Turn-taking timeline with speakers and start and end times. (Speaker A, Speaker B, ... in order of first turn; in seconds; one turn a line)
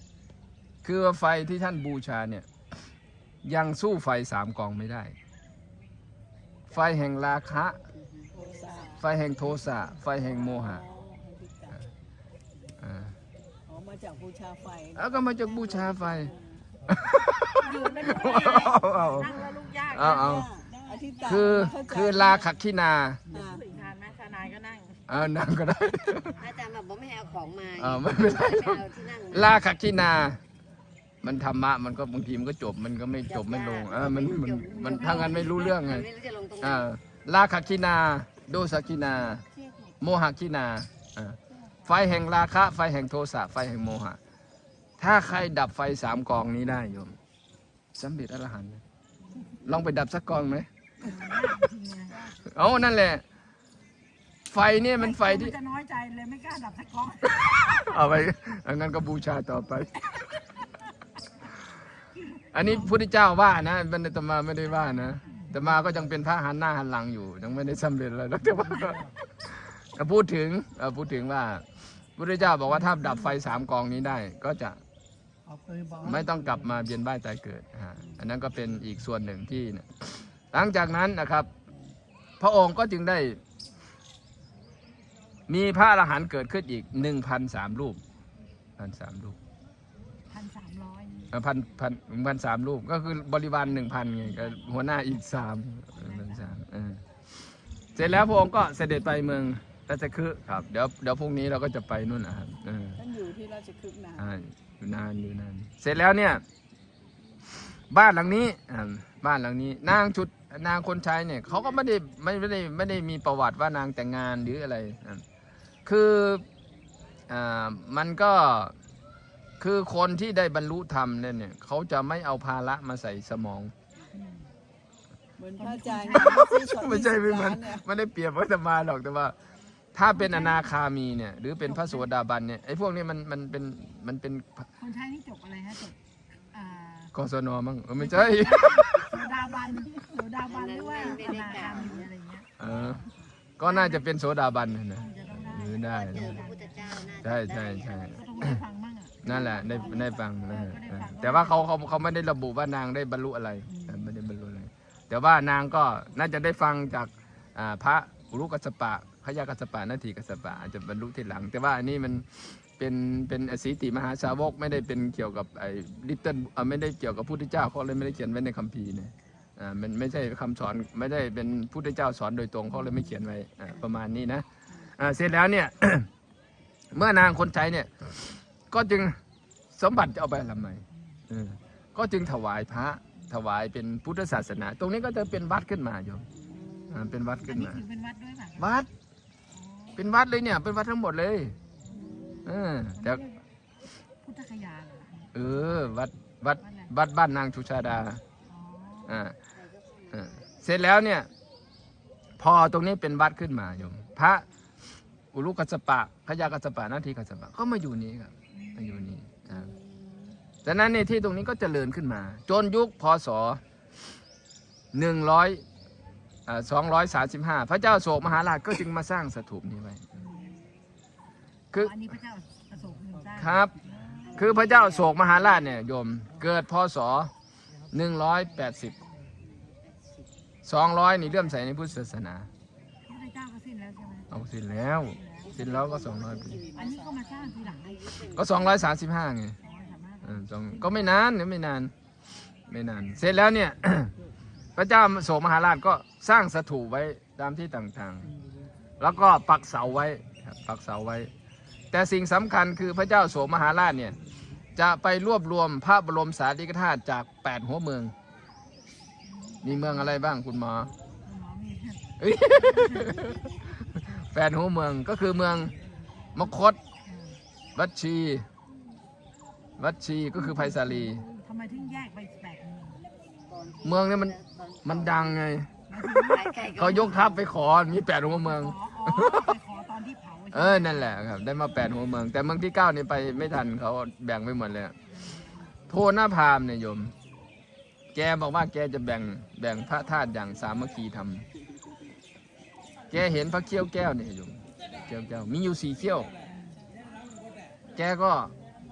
Speaker A: 0.8-2.5
Speaker A: 3.4-5.2
Speaker A: 6.7-7.8
Speaker B: 8.0-8.9
Speaker C: 8.3-9.0
Speaker A: 9.0-10.8
Speaker C: 10.3-11.8
Speaker A: 12.8-13.1
Speaker C: 13.7-16.6
Speaker A: 15.0-16.3
Speaker A: 16.9-20.5
Speaker D: 17.6-22.3
Speaker C: 20.0-22.5
Speaker A: 21.3-23.2
Speaker C: 23.3-23.7
Speaker D: 23.3-25.1
Speaker A: 25.1-26.4
Speaker B: 26.4-29.7
Speaker A: 27.8-30.4
Speaker A: 31.2-36.1
Speaker B: 33.3-36.9
Speaker D: 34.8-35.5
Speaker A: 36.6-39.5
Speaker A: 40.0-44.2
Speaker A: 45.0-47.2
Speaker A: 48.0-48.8
Speaker A: 49.6-50.7
Speaker D: 51.0-52.3
Speaker A: 52.4-53.2
Speaker A: 54.5-55.6
Speaker D: 55.0-58.0
Speaker A: 57.4-60.3
Speaker A: 62.5-71.7
Speaker D: 62.6-62.9
Speaker D: 65.0-65.5
Speaker A: 72.2-74.8
Speaker C: 75.5-76.4
Speaker A: 76.0-81.5
Speaker A: 82.4-83.4
Speaker A: 85.5-88.0
Speaker A: 88.8-89.4
Speaker D: 90.3-91.3
Speaker A: 91.3-97.0
Speaker D: 96.0-96.5
Speaker A: 98.0-103.0
Speaker C: 103.0-104.4
Speaker A: 104.2-106.4
Speaker A: 107.6-115.2
Speaker A: 115.9-116.5
Speaker A: 117.3-118.7
Speaker A: 119.6-123.7
Speaker D: 124.2-124.5
Speaker C: 125.4-127.8
Speaker D: 125.6-126.5
Speaker A: 126.1-129.4
Speaker A: 129.9-134.7
Speaker D: 130.2-130.6
Speaker D: 131.7-132.1
Speaker D: 134.8-136.0
Speaker D: 136.5-137.1
Speaker A: 137.1-139.2
Speaker D: 138.0-143.1
Speaker B: 140.4-142.1
Speaker A: 142.6-143.0
Speaker A: 143.6-146.4
Speaker D: 143.6-144.1
Speaker D: 144.9-147.2
Speaker B: 145.8-148.6
Speaker A: 147.2-148.6
Speaker D: 148.1-151.8
Speaker A: 149.2-174.5
Speaker D: 153.7-154.1
Speaker A: 175.0-176.1
Speaker A: 176.9-179.2
Speaker A: 179.7-186.3
Speaker C: 186.4-187.2
Speaker A: 186.9-187.8
Speaker D: 187.4-188.8
Speaker A: 188.6-188.9
Speaker D: 189.5-190.1
Speaker A: 190.0-191.6
Speaker D: 191.9-193.4
Speaker A: 192.4-193.2
Speaker D: 194.2-195.3
Speaker A: 195.3-198.2
Speaker D: 196.6-196.9
Speaker D: 198.5-199.2
Speaker A: 199.1-199.3
Speaker B: 199.5-200.5
Speaker A: 200.1-201.3
Speaker A: 202.4-204.4
Speaker A: 205.3-209.7
Speaker D: 208.5-209.1
Speaker C: 209.8-210.3
Speaker A: 210.6-213.6
Speaker A: 214.9-215.6
Speaker A: 216.5-220.1
Speaker D: 220.2-220.5
Speaker B: 220.3-220.6
Speaker A: 221.7-222.1
Speaker D: 221.7-224.5
Speaker A: 223.4-223.7
Speaker B: 224.2-225.7
Speaker A: 224.3-227.3
Speaker A: 227.9-229.0
Speaker B: 229.4-230.3
Speaker A: 230.7-232.5
Speaker D: 233.1-234.3
Speaker A: 234.3-236.6
Speaker D: 235.2-235.6
Speaker B: 235.4-238.9
Speaker C: 236.5-237.2
Speaker D: 236.7-238.0
Speaker A: 238.3-239.6
Speaker D: 239.6-241.2
Speaker A: 240.2-241.9
Speaker A: 242.7-244.1
Speaker A: 244.8-248.3
Speaker A: 249.0-251.3
Speaker A: 251.9-254.2
Speaker A: 254.8-258.1
Speaker D: 259.3-260.2
Speaker A: 259.6-260.9
Speaker D: 261.2-262.1
Speaker A: 262.2-265.7
Speaker D: 262.7-263.3
Speaker A: 266.4-266.8
Speaker D: 267.1-267.4
Speaker A: 267.8-268.5
Speaker A: 269.8-271.2
Speaker D: 270.6-273.0
Speaker B: 273.5-275.4
Speaker A: 273.8-275.7
Speaker D: 275.9-277.3
Speaker B: 276.2-277.5
Speaker A: 276.7-279.5
Speaker D: 278.4-281.2
Speaker A: 280.5-284.9
Speaker D: 285.2-285.7
Speaker A: 285.9-287.1
Speaker A: 288.1-291.4
Speaker A: 293.1-296.3
Speaker A: 297.9-298.5